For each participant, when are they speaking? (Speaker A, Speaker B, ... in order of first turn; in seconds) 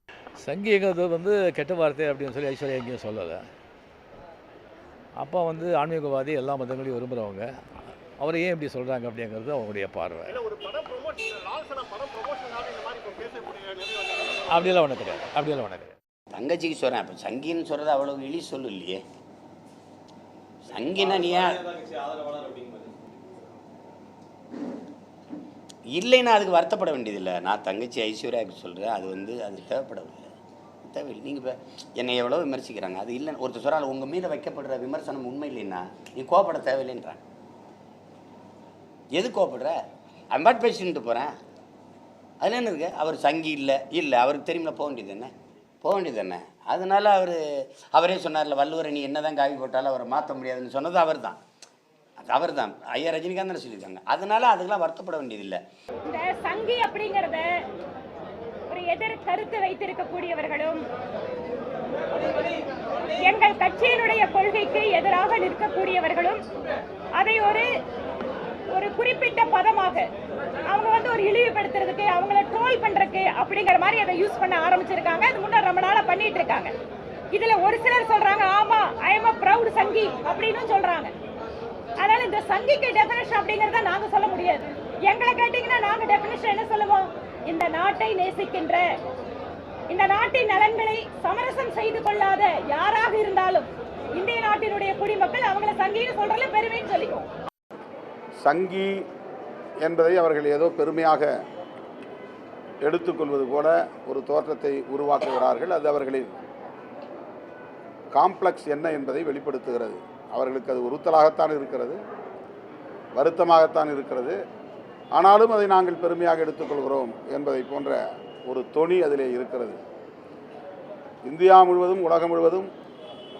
Speaker A: 0.4-3.4, 5.2-7.5, 8.2-10.4, 14.5-15.9
Speaker B: 10.5-13.6
Speaker C: 16.3-19.0, 20.6-21.8, 25.9-37.2, 39.1-39.8, 40.3-41.3, 42.4-45.3, 45.8-47.4, 47.9-51.4, 52.2-55.6
Speaker D: 56.1-57.5, 58.7-60.8, 62.2-62.5, 63.2-66.4, 67.2-67.7, 68.7-70.1, 70.7-76.7, 77.3-81.1, 82.0-88.8, 89.9-97.3
Speaker E: 98.4-99.0, 99.8-101.3, 102.8-106.3, 108.1-112.0, 113.2-114.4, 115.1-119.8, 121.2-122.7